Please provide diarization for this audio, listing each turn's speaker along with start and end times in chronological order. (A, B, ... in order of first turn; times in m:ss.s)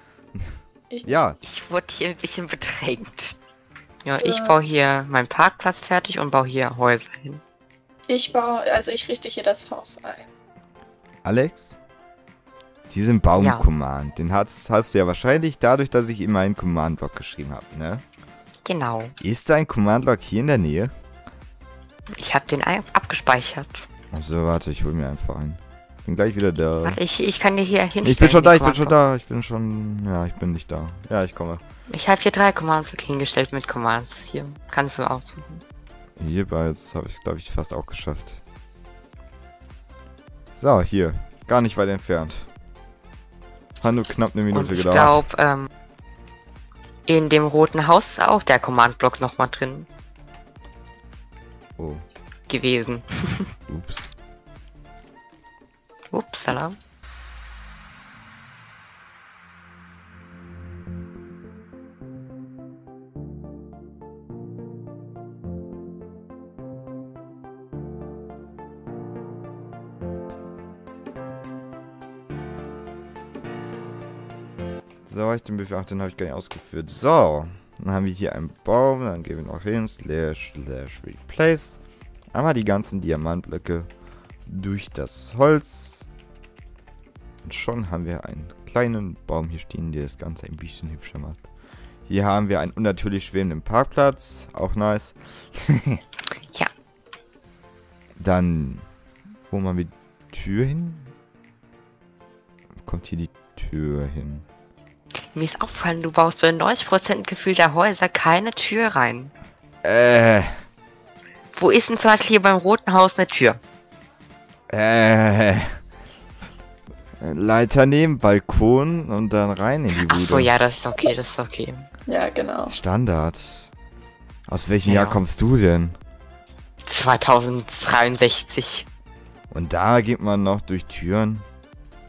0:01.0-0:01.4 A
0:01.4-0:03.4 B
0:04.0-0:07.4 B
0:04.2-0:04.6 C
0:08.1-0:10.3 C
0:11.2-0:11.8 A
0:12.9-0:18.0 A
0:13.4-0:13.7 B
0:18.6-0:19.1 B
0:19.2-0:20.9 A
0:22.2-0:23.9 B
0:24.1-0:27.0 A
0:26.8-0:29.0 B
0:28.0-0:31.6 A
0:31.9-0:35.6 B
0:36.2-0:38.4 A
0:40.6-0:42.5 A
0:43.8-0:45.3 A
0:44.5-0:45.7 B
0:47.1-0:49.9 B
0:51.8-0:52.0 A
0:52.5-0:53.5 B
0:53.7-0:54.1 A
0:56.1-0:56.8 B
1:15.0-1:21.8 A
1:22.3-1:23.9 A
1:24.5-1:26.1 A
1:27.4-1:31.5 A
1:32.1-1:36.0 A
1:38.2-1:38.9 A
1:39.5-1:41.1 A
1:42.8-1:44.4 A
1:45.3-1:49.3 B
1:49.8-1:50.6 A
1:51.5-1:53.6 B
1:54.7-1:55.8 A
1:57.2-2:00.5 A
1:59.9-2:01.9 B
2:02.1-2:02.7 C
2:02.7-2:03.7 A
2:04.5-2:06.0 A
2:04.8-2:05.2 B
2:06.8-2:08.9 B
2:09.5-2:11.4 A